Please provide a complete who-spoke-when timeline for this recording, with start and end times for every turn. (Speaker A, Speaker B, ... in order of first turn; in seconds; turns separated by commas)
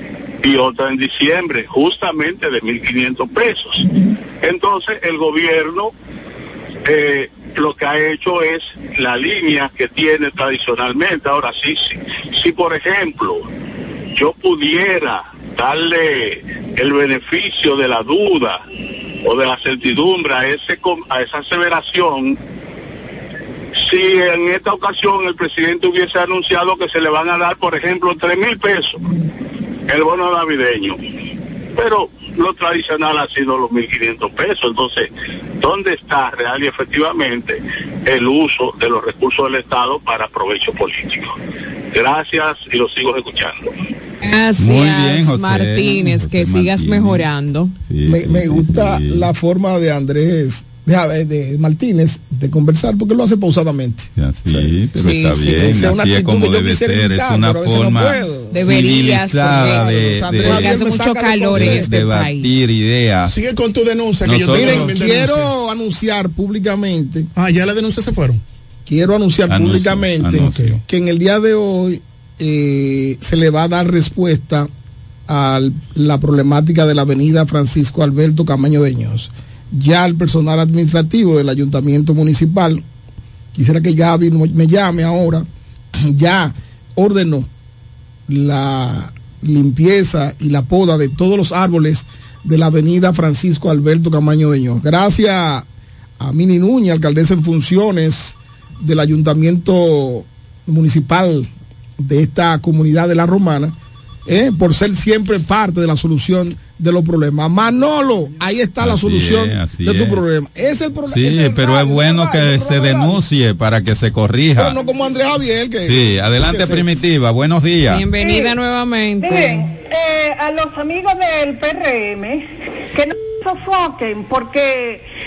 Speaker A: 0.4-3.9, Speaker A: 4.4-5.9, Speaker A: 6.9-13.4, Speaker A: 14.2-18.6, Speaker A: 19.2-22.4, Speaker A: 23.8-29.0, Speaker A: 29.9-31.0, Speaker A: 31.8-35.1, Speaker A: 35.6-41.3, Speaker A: 41.9-43.7, Speaker B: 44.2-47.8, Speaker C: 44.6-47.3, Speaker C: 47.9-49.3, Speaker D: 48.0-54.7, Speaker C: 54.2-60.9, Speaker B: 54.9-55.5, Speaker D: 55.5-58.8, Speaker B: 58.5-62.7, Speaker D: 59.6-61.9, Speaker C: 61.5-63.4, Speaker E: 63.3-65.5, Speaker C: 64.2-65.2, Speaker D: 64.5-67.3, Speaker E: 67.4-68.4, Speaker D: 68.9-74.7, Speaker C: 69.5-70.8, Speaker E: 70.5-70.8, Speaker D: 75.3-82.8, Speaker D: 83.5-85.5, Speaker D: 86.1-87.5, Speaker D: 88.3-95.7, Speaker D: 96.2-103.8, Speaker D: 104.3-113.1, Speaker C: 108.8-110.2, Speaker C: 111.1-114.8, Speaker D: 114.6-117.0, Speaker C: 115.8-118.1, Speaker B: 117.9-119.7, Speaker F: 118.2-118.5, Speaker F: 119.2-125.1